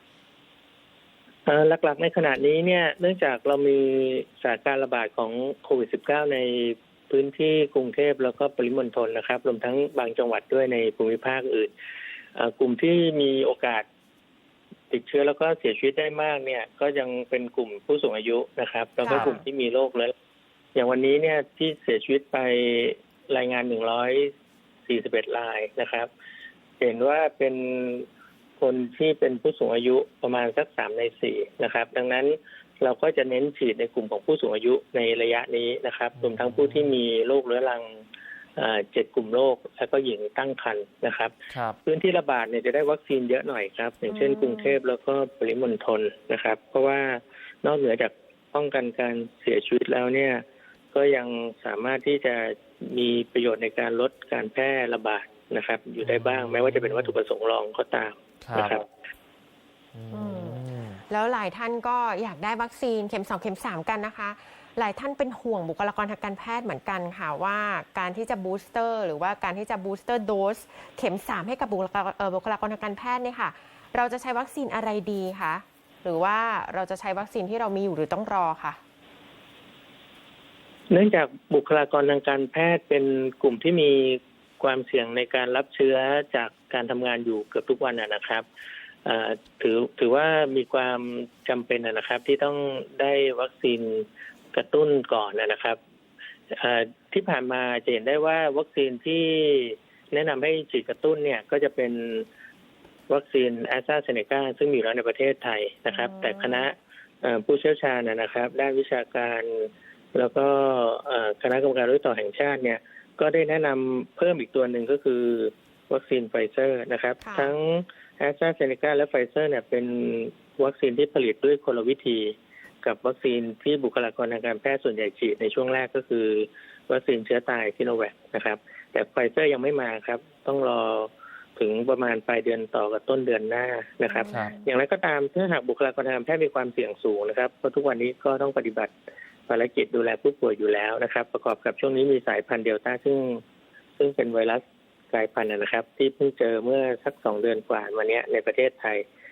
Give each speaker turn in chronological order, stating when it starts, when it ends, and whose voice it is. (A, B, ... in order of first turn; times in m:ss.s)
0:01.5-0:11.7 A
0:12.4-0:13.9 A
0:14.9-0:20.1 A
0:19.0-0:19.4 B
0:20.8-0:24.3 A
0:24.9-0:26.1 A
0:26.8-0:28.1 A
0:28.6-0:38.0 A
0:36.2-0:37.0 C
0:38.6-0:41.3 A
0:41.5-0:41.8 C
0:41.8-0:58.8 A
0:44.1-0:44.8 B
0:56.0-0:57.2 C
0:58.4-0:58.8 C
1:00.0-1:01.0 C
1:00.1-1:18.8 B
1:20.9-1:28.5 A
1:29.0-1:35.8 A
1:36.5-1:42.3 A
1:43.1-2:18.9 A
1:45.9-1:46.7 B
1:57.2-1:57.5 B
2:14.1-2:14.7 B
2:19.5-2:23.4 A
2:24.0-2:29.1 A